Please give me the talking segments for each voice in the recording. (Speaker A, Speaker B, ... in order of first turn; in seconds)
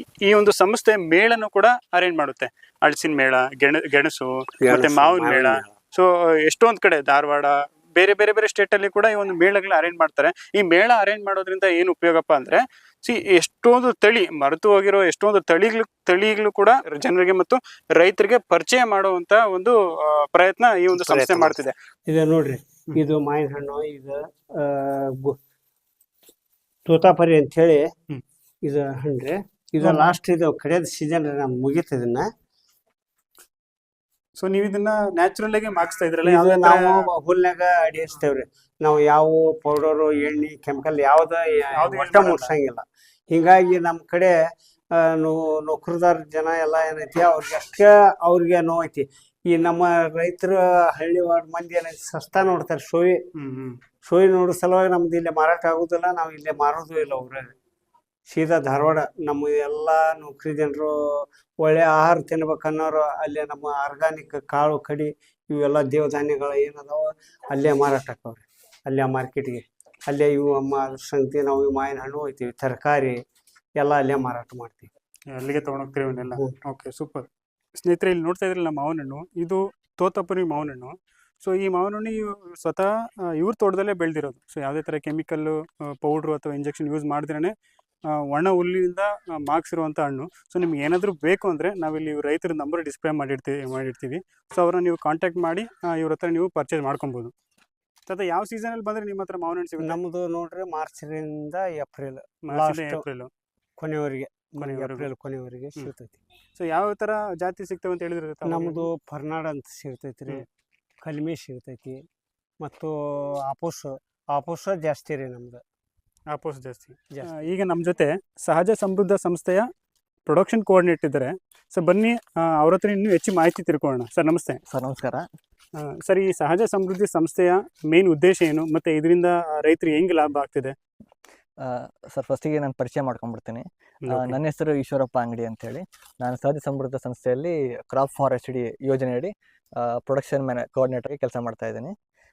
Speaker A: 0.2-21.7, 29.8-30.1, 34.4-37.1, 41.8-42.5, 53.4-53.8, 75.3-77.3, 77.8-87.5, 88.3-97.3, 98.1-100.0, 102.5-103.3, 104.6-105.1, 106.5-108.9, 116.3-119.7, 120.3-124.6, 125.8-130.8, 134.0-134.4
Speaker B: 4.7-5.7, 20.9-25.4, 26.9-27.9, 28.6-32.3, 36.2-44.4, 45.0-53.2, 54.0-57.5, 58.3-61.0, 61.6-73.2, 73.8-74.9, 99.8-103.0, 103.8-106.2, 108.5-110.5, 111.0-112.0, 112.6-115.6
Speaker C: 124.7-125.2, 131.6-141.9